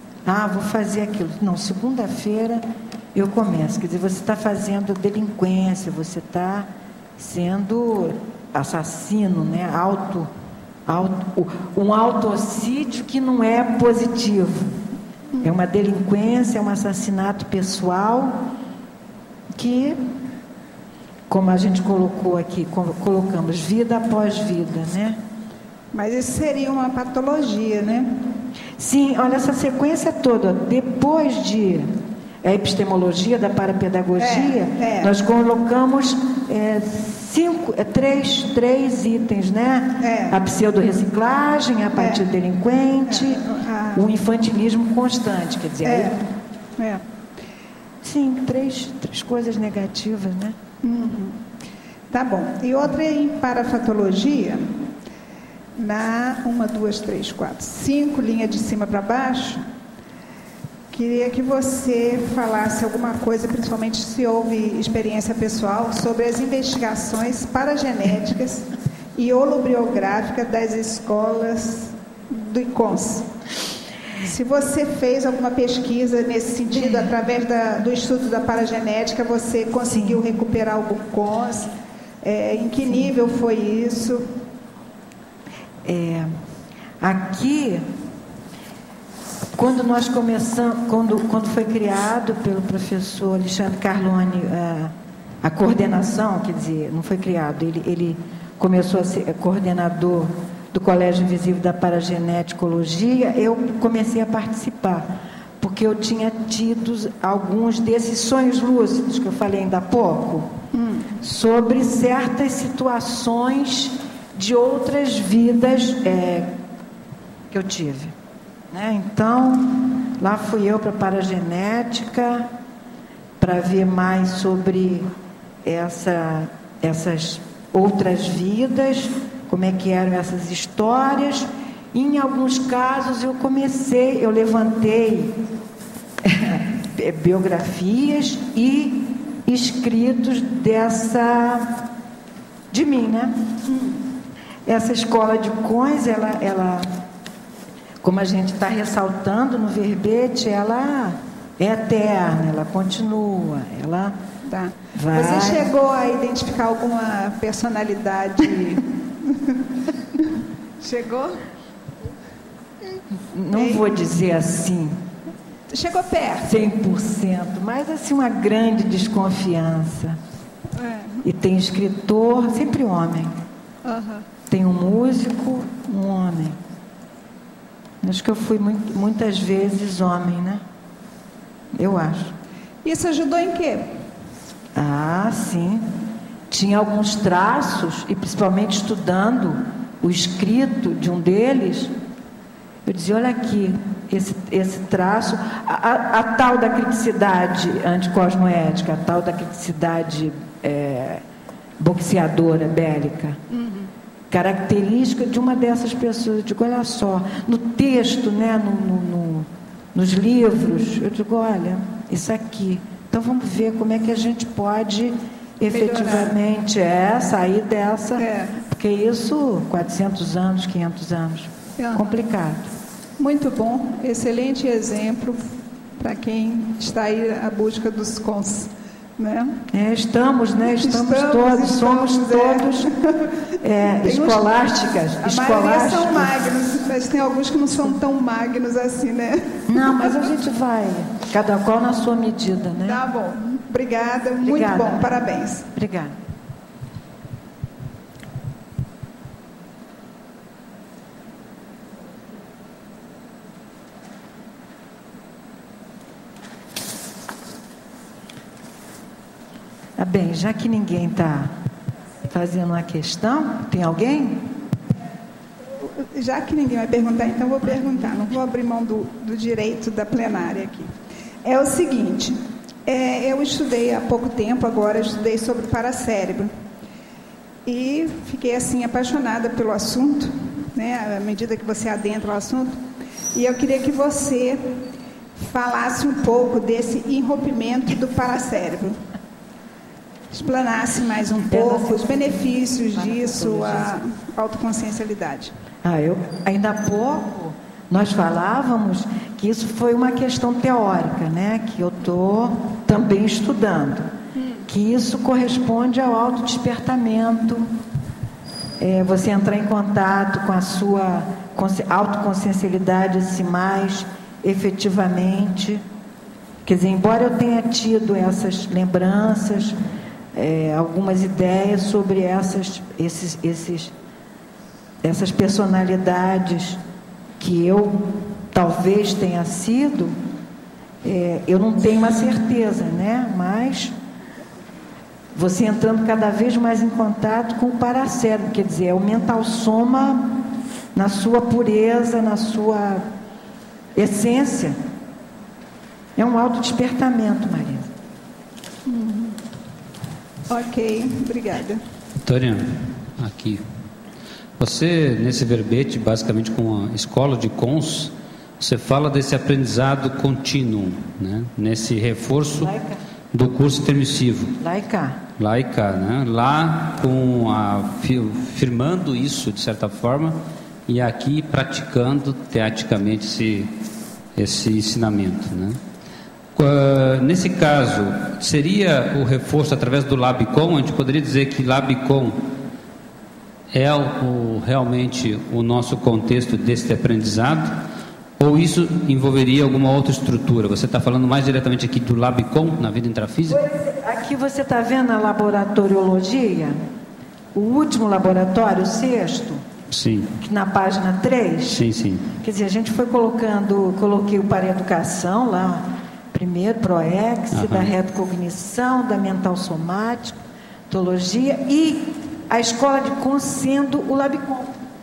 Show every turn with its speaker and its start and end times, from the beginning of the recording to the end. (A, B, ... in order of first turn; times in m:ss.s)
0:00.2-0:10.3 A
0:10.9-0:14.8 A
0:15.4-0:18.4 A
0:19.5-0:20.0 A
0:21.3-0:25.2 A
0:25.9-0:28.1 B
0:28.8-0:31.9 A
0:32.4-0:43.4 A
0:34.2-0:35.1 B
0:40.0-0:40.4 B
0:42.0-0:42.2 B
0:43.1-0:44.1 B
0:43.9-0:46.2 A
0:45.8-0:46.2 B
0:46.8-0:47.0 B
0:48.0-0:50.6 A
0:50.8-0:51.4 B
0:52.1-0:54.8 B
0:55.8-0:59.6 B
1:00.9-1:13.3 B
1:14.2-1:24.3 B
1:16.8-1:17.1 A
1:19.9-1:20.2 A
1:25.8-1:26.3 A
1:27.0-1:27.8 A
1:29.6-1:50.5 A
1:50.7-1:51.1 B
1:51.2-1:56.5 A
1:57.5-1:58.1 A
1:58.7-2:02.5 A
2:03.4-2:05.1 A
2:05.6-2:15.4 A
2:16.2-2:21.8 A
2:22.7-2:23.4 A
2:24.7-2:26.9 A
2:28.0-2:34.2 A
2:34.4-2:38.8 B
2:34.9-2:35.7 A
2:40.8-2:41.4 B
2:43.3-2:45.0 A
2:43.5-2:43.8 B
2:45.7-2:46.6 B
2:46.4-2:50.2 A
2:50.8-2:51.2 B
2:51.2-2:53.3 A
2:53.8-2:54.2 B
2:54.5-2:56.6 A
2:58.0-3:00.6 A
3:01.8-3:02.3 A
3:02.8-3:03.8 B
3:04.7-3:05.9 A
3:06.5-3:11.9 A
3:12.8-3:21.2 A
3:21.8-3:23.4 A
3:23.5-3:23.9 B
3:24.3-3:42.7 A
3:35.7-3:36.3 B
3:38.2-3:38.6 B
3:41.8-3:42.0 B
3:43.2-3:49.6 B
3:49.7-3:52.9 A
3:50.8-3:53.0 B
3:53.6-3:56.4 A
3:54.0-3:54.5 B
3:55.2-4:00.3 B
3:59.7-4:03.0 A
4:02.8-4:05.6 B
4:04.4-4:06.1 A
4:20.0-4:21.5 A
4:22.3-4:24.4 A
4:26.0-4:36.5 B
4:37.6-4:44.8 B
4:45.4-4:49.0 B
4:50.3-4:55.5 B
4:51.5-4:54.0 A
4:55.8-5:04.1 A
5:04.4-5:04.6 B
5:04.7-5:07.7 A
5:08.8-5:15.8 A
5:16.6-5:19.8 A
5:20.3-5:23.9 A
5:25.0-5:26.8 A
5:27.4-5:30.2 A
5:31.0-5:33.9 A
5:35.3-5:40.4 A
5:40.9-5:43.0 A
5:44.0-5:44.8 A
5:46.2-5:47.9 A
5:48.8-5:49.4 B
5:50.5-5:51.8 B
5:52.2-5:53.6 C
5:54.6-6:02.7 C
6:02.6-6:03.0 A
6:03.3-6:04.5 C
6:04.6-6:05.2 A
6:05.4-6:13.7 C
6:14.4-6:15.8 C
6:16.6-6:22.4 C
6:23.7-6:27.8 C
6:28.4-6:33.6 C
6:33.5-6:36.8 A
6:37.5-6:39.6 A
6:39.9-6:40.3 C
6:40.4-6:41.8 A
6:41.7-6:42.3 C
6:42.4-6:54.7 A
6:47.5-6:47.9 C